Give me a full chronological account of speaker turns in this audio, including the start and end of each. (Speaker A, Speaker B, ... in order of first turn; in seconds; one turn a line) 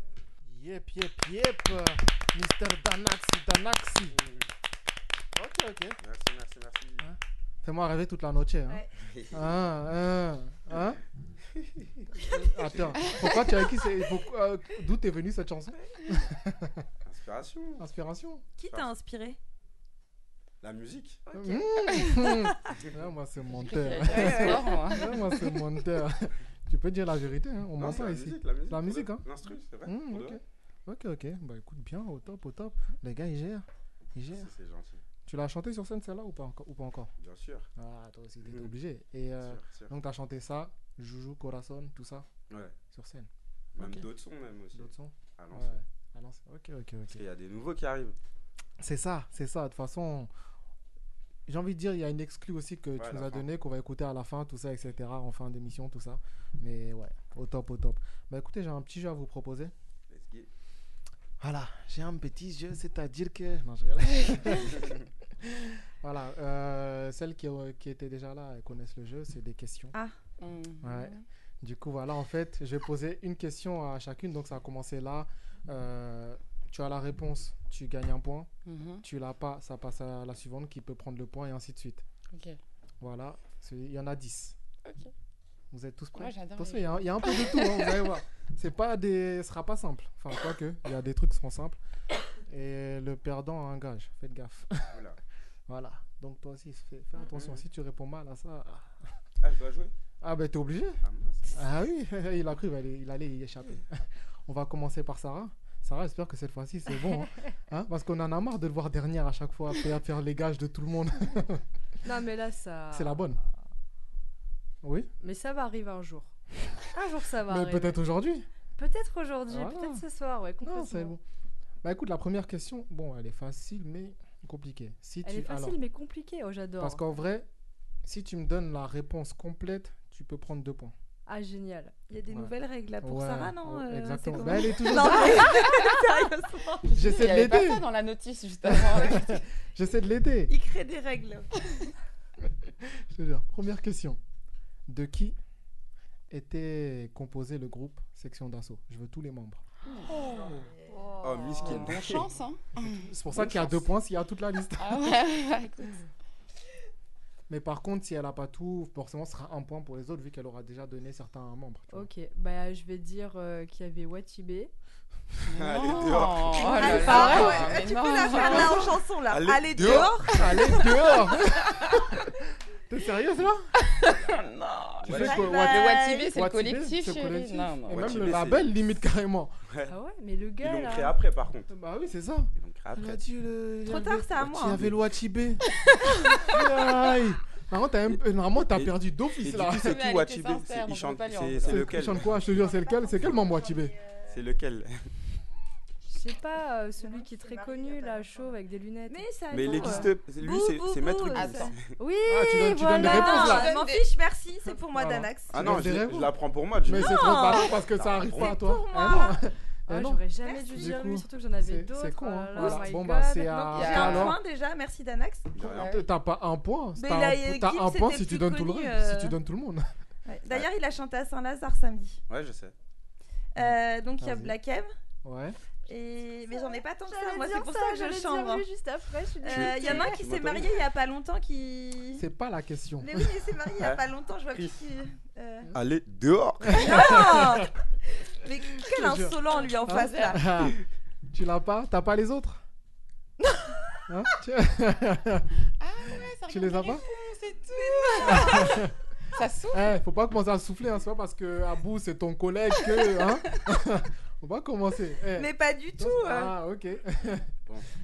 Speaker A: 0.4-4.2
Speaker B: 4.2-4.4
Speaker A: 5.3-6.0
Speaker B: 6.0-7.0
Speaker A: 7.0-11.0
Speaker B: 9.0-9.6
Speaker A: 12.1-16.9
Speaker C: 13.1-13.8
Speaker B: 17.0-17.8
Speaker A: 17.8-18.4
Speaker D: 18.6-19.4
Speaker B: 20.6-21.2
Speaker D: 21.3-22.5
Speaker A: 21.3-29.2
Speaker C: 21.9-22.2
Speaker C: 23.5-25.2
Speaker D: 24.0-25.0
Speaker B: 27.8-30.4
Speaker A: 29.8-34.5
Speaker B: 34.3-35.0
Speaker A: 35.2-37.1
Speaker B: 37.2-37.7
Speaker A: 37.8-42.3
Speaker B: 38.4-38.7
Speaker B: 39.4-39.9
Speaker B: 42.5-42.8
Speaker A: 42.9-44.1
Speaker B: 43.8-45.8
Speaker A: 44.7-47.2
Speaker B: 47.1-48.1
Speaker A: 48.8-50.3
Speaker A: 51.5-59.7
Speaker B: 53.0-53.5
Speaker B: 60.1-60.5
Speaker A: 61.4-64.9
Speaker A: 65.4-69.9
Speaker C: 70.4-71.2
Speaker A: 70.8-78.5
Speaker C: 78.7-79.0
Speaker A: 79.0-82.0
Speaker C: 82.3-82.6
Speaker A: 83.0-84.5
Speaker C: 84.8-85.1
Speaker A: 85.7-91.8
Speaker C: 86.1-88.1
Speaker A: 92.5-95.0
Speaker B: 94.9-95.2
Speaker A: 95.7-99.1
Speaker B: 97.3-97.6
Speaker B: 99.4-99.9
Speaker A: 100.2-101.0
Speaker B: 101.0-101.6
Speaker A: 101.5-111.6
Speaker E: 112.0-113.4
Speaker A: 112.9-113.4
Speaker A: 114.8-115.1
Speaker E: 115.2-116.3
Speaker E: 116.9-118.0
Speaker A: 117.5-118.5
Speaker E: 118.8-121.2
Speaker A: 119.5-120.0
Speaker A: 120.6-121.2
Speaker A: 121.8-125.8
Speaker E: 125.2-127.0
Speaker A: 126.8-127.5
Speaker A: 128.0-130.9
Speaker E: 131.3-131.9
Speaker D: 132.1-136.9
Speaker A: 132.3-135.6
Speaker C: 136.8-139.4
Speaker A: 136.9-137.8
Speaker A: 138.6-140.5
Speaker D: 140.5-141.5
Speaker A: 142.7-144.2
Speaker A: 144.9-145.4
Speaker A: 146.3-150.7
Speaker C: 149.9-150.3
Speaker D: 150.1-151.0
Speaker C: 150.9-153.1
Speaker B: 151.2-152.3
Speaker A: 151.7-152.1
Speaker A: 152.8-155.2
Speaker B: 153.3-153.7
Speaker C: 154.8-156.0
Speaker A: 157.5-162.1
Speaker E: 161.9-164.7
Speaker B: 165.5-167.6
Speaker C: 165.5-169.0
Speaker D: 166.6-171.3
Speaker A: 167.1-167.6
Speaker B: 168.4-170.3
Speaker A: 170.3-172.3
Speaker C: 171.6-172.1
Speaker A: 172.9-173.7
Speaker C: 173.8-178.2
Speaker B: 174.1-174.4
Speaker B: 175.0-175.5
Speaker A: 175.1-179.5
Speaker D: 175.1-176.3
Speaker B: 177.9-178.7
Speaker E: 179.9-181.2
Speaker B: 180.6-181.7
Speaker A: 181.7-185.7
Speaker B: 182.6-183.2
Speaker D: 183.8-184.8
Speaker B: 184.6-185.0
Speaker C: 185.9-186.5
Speaker A: 186.3-190.0
Speaker B: 188.7-192.5
Speaker C: 189.8-192.0
Speaker A: 191.6-193.9
Speaker D: 192.4-194.4
Speaker B: 194.3-195.0
Speaker E: 196.1-199.2
Speaker D: 197.0-198.5
Speaker D: 199.1-201.7
Speaker B: 199.5-201.8
Speaker C: 201.3-201.7
Speaker E: 202.0-203.7
Speaker A: 202.2-203.7
Speaker D: 203.0-205.8
Speaker C: 203.0-204.1
Speaker A: 204.9-214.4
Speaker B: 205.5-208.6
Speaker D: 206.9-209.4
Speaker E: 209.9-213.8
Speaker D: 210.4-211.0
Speaker D: 212.6-212.8
Speaker D: 213.5-215.5
Speaker C: 213.7-214.4
Speaker B: 215.5-216.0
Speaker C: 215.6-216.1
Speaker A: 215.6-219.8
Speaker D: 217.0-219.4
Speaker D: 220.2-222.2
Speaker B: 222.3-222.7
Speaker D: 223.5-224.9
Speaker A: 223.6-224.5
Speaker A: 225.2-225.6
Speaker D: 225.9-228.7
Speaker E: 226.5-230.2
Speaker D: 229.4-232.2
Speaker B: 229.5-230.8
Speaker A: 232.2-233.3
Speaker D: 233.0-235.7
Speaker B: 233.8-234.8
Speaker B: 235.7-237.3
Speaker A: 236.6-237.7
Speaker D: 236.7-237.7
Speaker D: 238.4-240.5
Speaker A: 238.8-240.8
Speaker C: 239.5-240.4
Speaker A: 241.3-242.6
Speaker A: 244.1-245.5
Speaker C: 245.8-249.9
Speaker A: 246.4-247.0
Speaker D: 247.7-248.8
Speaker A: 248.2-248.9
Speaker A: 249.7-257.5
Speaker C: 252.9-253.4
Speaker D: 255.3-256.5